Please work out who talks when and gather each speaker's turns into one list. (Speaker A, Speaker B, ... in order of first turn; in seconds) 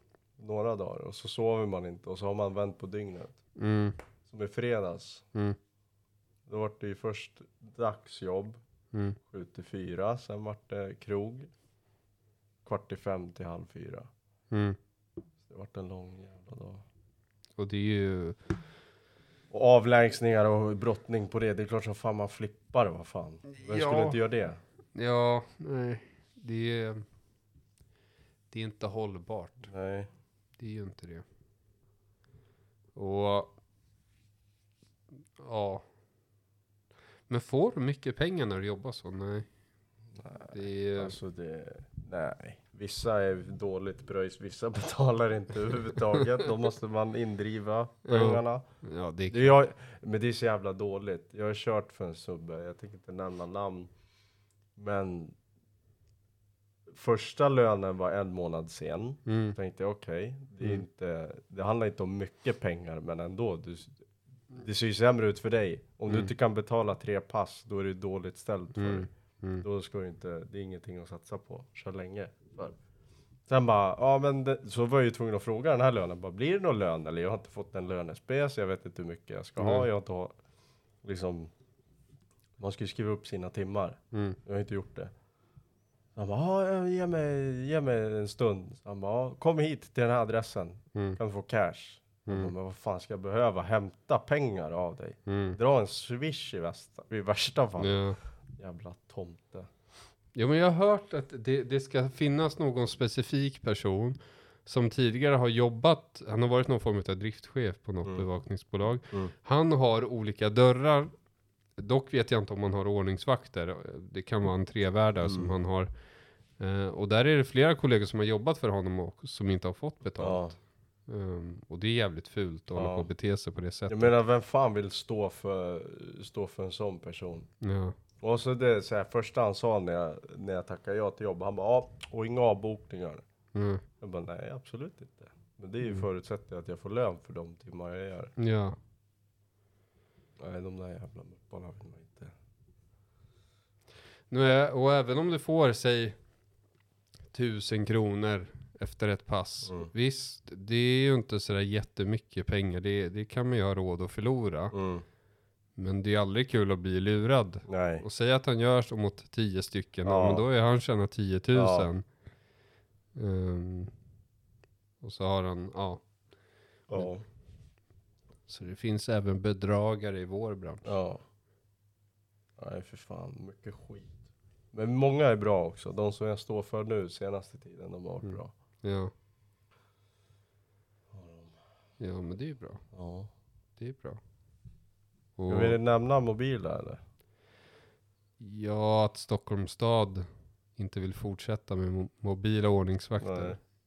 Speaker A: 0.4-3.4, 4.3-5.3, 6.5-8.6, 9.2-11.5, 12.7-14.1, 15.4-16.8, 19.5-24.6, 29.7-30.1, 40.1-48.6, 49.3-53.9, 54.8-55.4, 56.9-64.0, 64.5-69.1, 69.6-72.8, 73.5-80.3, 81.0-81.5, 82.6-85.1, 86.2-98.0, 98.6-99.7, 115.2-115.6, 120.2-120.6, 122.7-123.1, 123.9-127.5, 128.2-133.2, 134.0-138.3, 140.4-142.3, 154.7-155.1, 157.7-158.0, 160.1-160.4, 161.5-161.9, 166.9-167.2, 170.8-171.2, 172.6-178.5, 181.1-181.6, 182.9-183.3, 185.5-187.0, 193.2-193.6
Speaker B: 3.6-4.0, 8.9-9.2, 14.5-14.8, 17.6-18.4, 23.5-24.2, 24.9-27.1, 28.5-29.7, 30.6-31.2, 33.0-33.5, 35.4-35.9, 37.3-39.5, 40.5-41.2, 48.1-49.6, 59.3-59.6, 68.8-69.7, 79.6-79.9, 84.1-84.4, 92.3-92.5, 95.3-95.6, 97.8-98.2, 100.3-111.1, 111.8-115.9, 116.6-120.5, 121.1-124.2, 127.6-128.0, 133.6-133.8, 138.4-138.8, 144.3-146.2, 147.3-154.8, 155.8-162.1, 163.2-163.9, 165.0-166.0, 168.5-171.0, 178.2-179.1, 182.0-182.8, 183.8-184.2, 185.4-185.8, 188.4-193.6